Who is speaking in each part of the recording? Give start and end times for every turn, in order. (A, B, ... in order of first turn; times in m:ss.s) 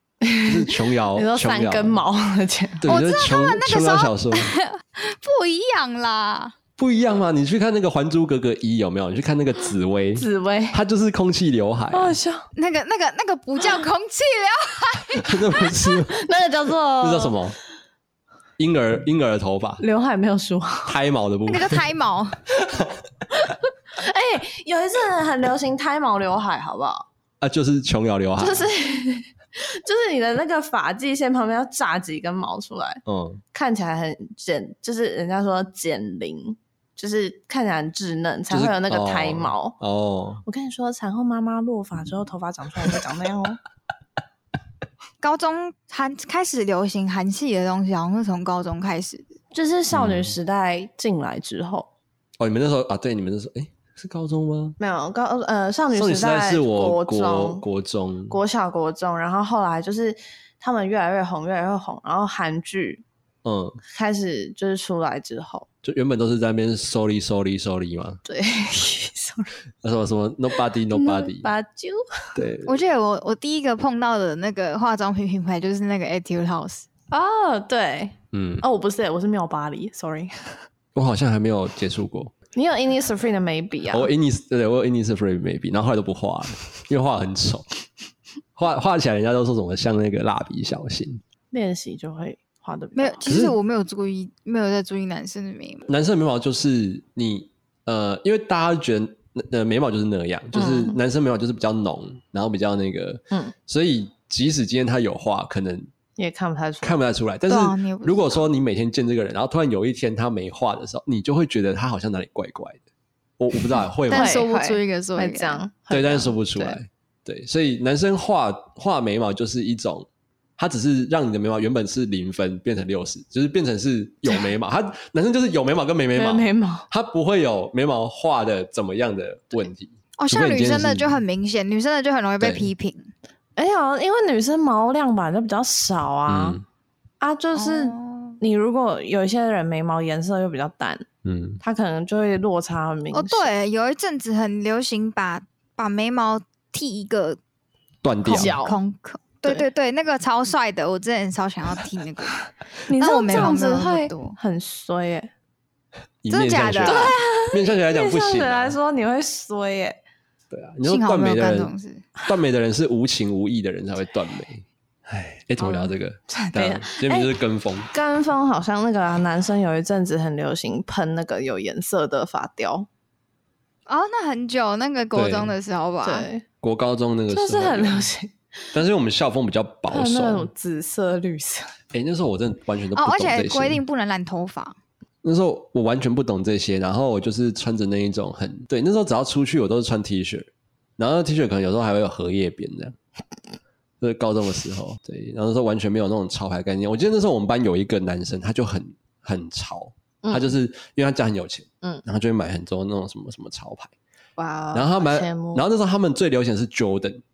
0:00.2-0:02.8 A
0:00.4-0:02.0 B
0:02.8-0:04.5 B
0:02.8-0:06.5 C
0:06.8-0:12.2 B
0:10.2-0:10.8 A
0:11.9-0:12.5 A
0:12.6-0:15.6 C
0:15.2-0:16.2 B
0:15.9-0:17.4 A
0:17.0-0:17.6 B
0:18.6-0:19.8 B
0:19.8-0:21.0 A
0:20.8-0:21.8 B
0:21.5-0:22.4 C
0:23.4-0:27.0 A
0:27.4-0:28.7 B
0:28.4-0:33.0 A
0:33.1-0:33.4 B
0:33.5-0:39.8 A
0:38.5-0:40.4 B
0:40.4-0:43.6 A
0:45.2-0:49.3 C
0:49.5-0:51.9 A
0:49.9-0:50.3 B
0:52.4-0:54.8 B
0:54.8-0:57.6 A
0:55.9-0:58.4 B
0:58.3-1:03.0 A
1:03.4-1:03.8 B
1:03.9-1:05.7 A
1:05.8-1:08.2 B
1:08.2-1:09.6 A
1:09.8-1:11.5 B
1:10.9-1:12.4 A
1:12.4-1:12.8 B
1:12.6-1:16.9 C
1:17.1-1:20.6 A
1:18.3-1:18.6 B
1:20.9-1:22.3 B
1:22.5-1:24.1 A
1:23.9-1:27.6 B
1:28.6-1:31.2 B
1:31.5-1:33.2 A
1:32.9-1:35.9 C
1:33.2-1:33.6 B
1:35.9-1:45.9 B
1:40.5-1:41.0 A
1:46.2-1:47.0 A
1:46.8-1:52.8 B
1:47.5-1:48.5 C
1:53.4-1:54.4 B
1:54.1-1:55.6 C
1:54.1-1:56.8 A
1:55.9-2:00.1 B
2:00.6-2:11.2 B
2:06.1-2:06.9 A
2:10.2-2:13.1 C
2:12.4-2:12.7 B
2:13.6-2:16.6 A
2:16.3-2:16.6 B
2:17.2-2:21.1 A
2:17.5-2:18.4 C
2:21.2-2:21.6 B
2:21.6-2:23.5 A
2:23.1-2:27.4 C
2:28.0-2:28.5 B
2:28.2-2:32.4 C
2:28.3-2:28.8 A
2:32.8-2:35.3 A
2:33.0-2:34.4 C
2:36.2-2:38.8 B
2:36.3-2:37.1 C
2:36.8-2:40.0 A
2:40.5-2:41.7 B
2:40.8-2:42.0 C
2:42.2-2:47.9 B
2:45.6-2:47.3 A
2:47.9-2:52.9 A
2:53.9-2:56.3 C
2:55.1-2:55.5 B
2:56.0-2:56.4 A
2:56.6-2:58.1 B
2:57.3-2:58.4 A
2:58.7-3:00.5 B
2:59.9-3:01.7 A
3:01.9-3:03.8 B
3:02.9-3:04.8 C
3:05.2-3:13.0 B
3:14.0-3:23.9 B
3:20.2-3:20.5 A
3:24.4-3:25.6 A
3:24.7-3:27.2 B